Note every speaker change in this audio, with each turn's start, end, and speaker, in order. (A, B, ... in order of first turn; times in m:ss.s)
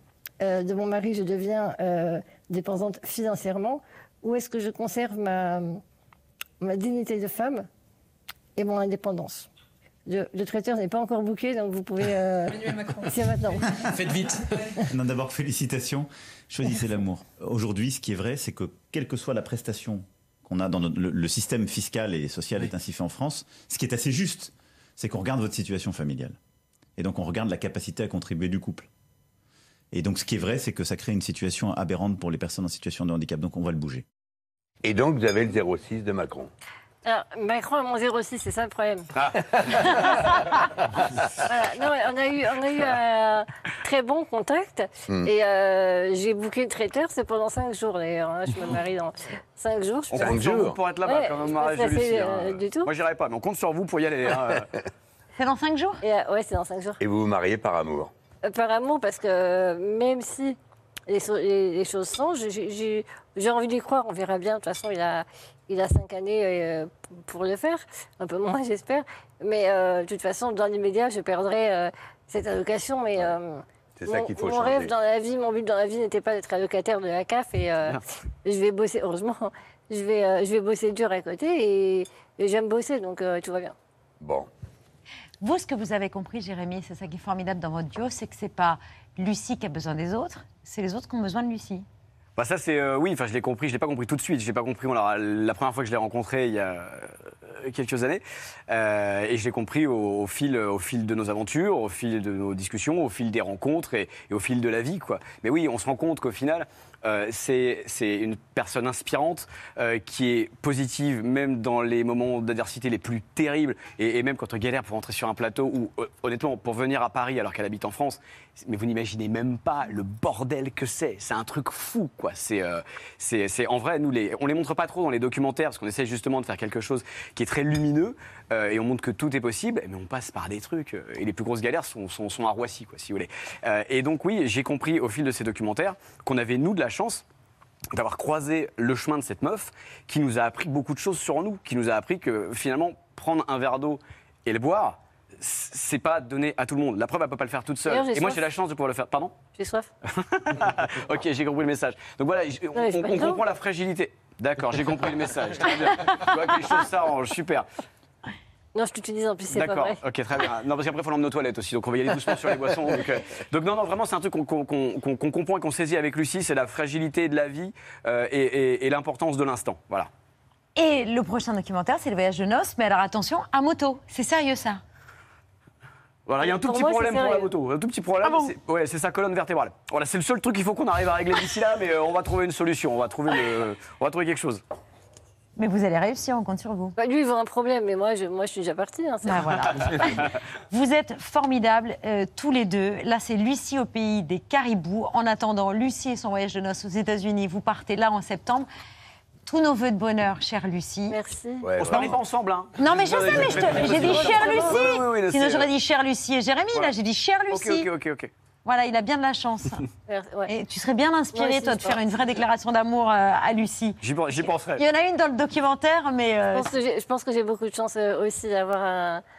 0:00.4-0:05.8 A
0:06.6-0:07.7 A
0:08.6-0:09.5 A
0:10.1-0:13.6 A
0:14.1-0:14.3 B
0:14.9-0:26.4 B
0:27.0-0:28.9 B
0:29.9-0:34.0 B
0:34.8-0:36.5 C
0:37.0-0:39.1 A
0:41.5-0:50.3 A
0:50.1-0:50.8 C
0:50.1-0:54.7 D
0:51.0-0:52.9 A
0:55.4-0:56.0 E
0:56.0-0:57.0 A
0:57.0-0:58.1 C
0:58.5-1:00.6 A
1:01.1-1:23.7 A
1:14.0-1:14.9 C
1:24.2-1:24.5 C
1:25.4-1:31.8 E
1:32.4-2:17.2 D
2:17.9-2:29.5 D
2:27.9-2:28.5 A
2:29.5-2:29.9 A
2:30.3-2:37.7 D
2:32.8-2:33.4 A
2:38.8-2:40.0 A
2:39.5-2:50.1 D
2:50.8-2:54.8 E
2:56.3-3:04.6 D
2:56.4-2:57.5 A
2:58.2-2:58.5 E
3:05.6-3:06.9 E
3:07.0-3:09.5 A
3:09.3-3:10.2 E
3:10.7-3:18.7 E
3:19.5-3:21.2 E
3:21.1-3:21.7 A
3:21.6-3:22.1 C
3:21.8-3:22.2 E
3:21.8-3:25.7 D
3:22.8-3:27.9 E
3:23.8-3:25.0 A
3:27.5-3:28.3 D
3:28.6-3:29.8 E
3:30.1-3:30.5 A
3:30.5-3:36.7 E
3:31.4-3:32.0 A
3:34.0-3:34.8 D
3:36.5-3:39.2 A